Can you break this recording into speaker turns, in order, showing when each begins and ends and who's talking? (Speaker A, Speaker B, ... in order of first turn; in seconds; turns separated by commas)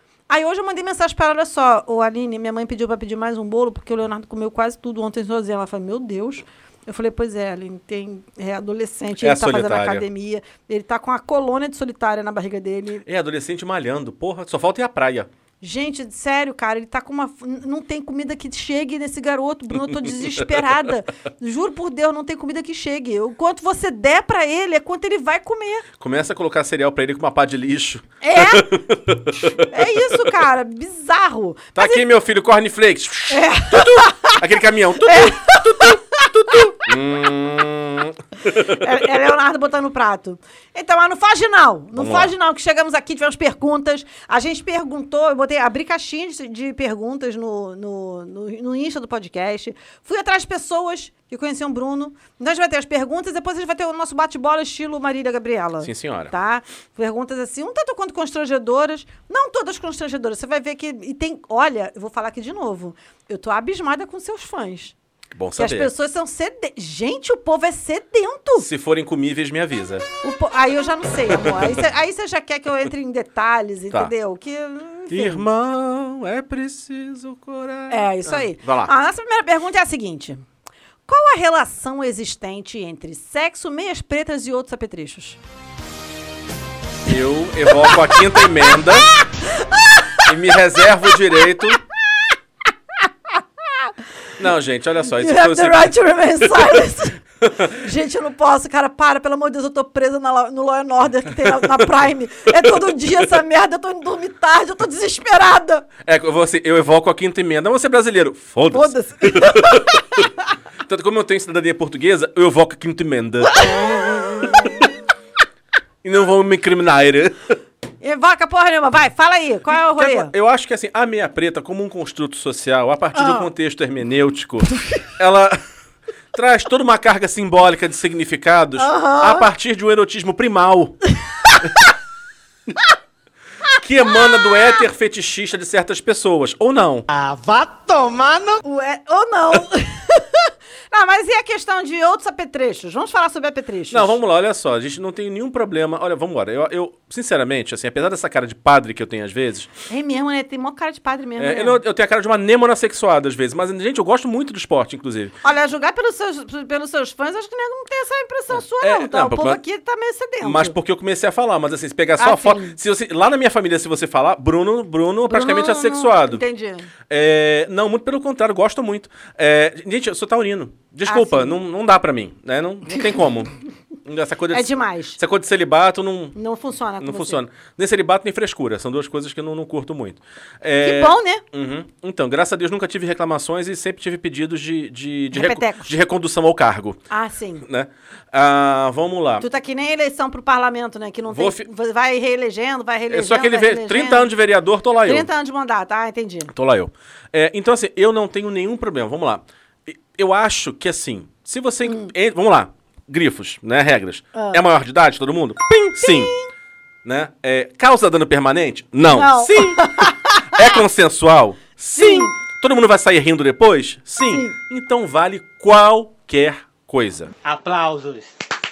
Speaker A: 0.3-13.0, Speaker B: 9.2-10.0, Speaker B: 13.0-15.3, Speaker A: 15.6-25.8, Speaker B: 19.9-20.6, Speaker B: 26.0-29.7, Speaker A: 28.2-28.8, Speaker A: 29.7-32.0, Speaker B: 31.8-38.9, Speaker A: 33.3-34.4, Speaker A: 35.0-36.8, Speaker A: 38.5-64.9, Speaker B: 42.0-42.3, Speaker B: 55.8-56.3, Speaker B: 65.3-65.9, Speaker A: 65.6-68.7, Speaker B: 68.6-70.0, Speaker A: 70.2-75.4, Speaker B: 75.1-78.9, Speaker A: 77.9-80.4, Speaker A: 81.1-85.4, Speaker B: 87.1-89.1, Speaker B: 90.2-91.8, Speaker B: 94.4-95.9, Speaker A: 95.1-105.8, Speaker B: 106.0-110.0, Speaker A: 108.7-110.2, Speaker B: 110.8-113.6, Speaker A: 113.5-114.7, Speaker B: 116.0-117.5, Speaker A: 118.0-120.3, Speaker B: 119.7-125.6, Speaker A: 123.1-123.5, Speaker B: 126.3-131.0, Speaker A: 128.8-129.5, Speaker B: 133.8-137.1, Speaker C: 137.1-138.6, Speaker A: 138.6-144.2, Speaker B: 143.9-149.7, Speaker A: 149.9-151.8, Speaker B: 151.4-155.3, Speaker A: 155.4-160.8, Speaker B: 158.5-159.6, Speaker B: 160.4-166.4, Speaker A: 162.2-162.8, Speaker A: 165.3-166.9, Speaker B: 167.1-173.5, Speaker A: 171.1-171.6, Speaker B: 174.0-176.3, Speaker A: 174.5-175.2, Speaker A: 176.3-177.4, Speaker B: 177.0-187.0, Speaker A: 180.8-181.4, Speaker A: 185.3-185.9, Speaker A: 187.1-187.6, Speaker B: 187.6-189.4, Speaker A: 189.4-194.3, Speaker B: 191.3-191.7, Speaker B: 193.1-195.3, Speaker A: 195.0-196.5, Speaker B: 196.5-206.3, Speaker A: 201.8-202.1, Speaker A: 204.3-204.6, Speaker A: 206.0-206.5, Speaker B: 207.0-217.3, Speaker A: 209.1-210.7, Speaker A: 211.9-212.3, Speaker A: 214.2-214.6, Speaker C: 217.4-218.3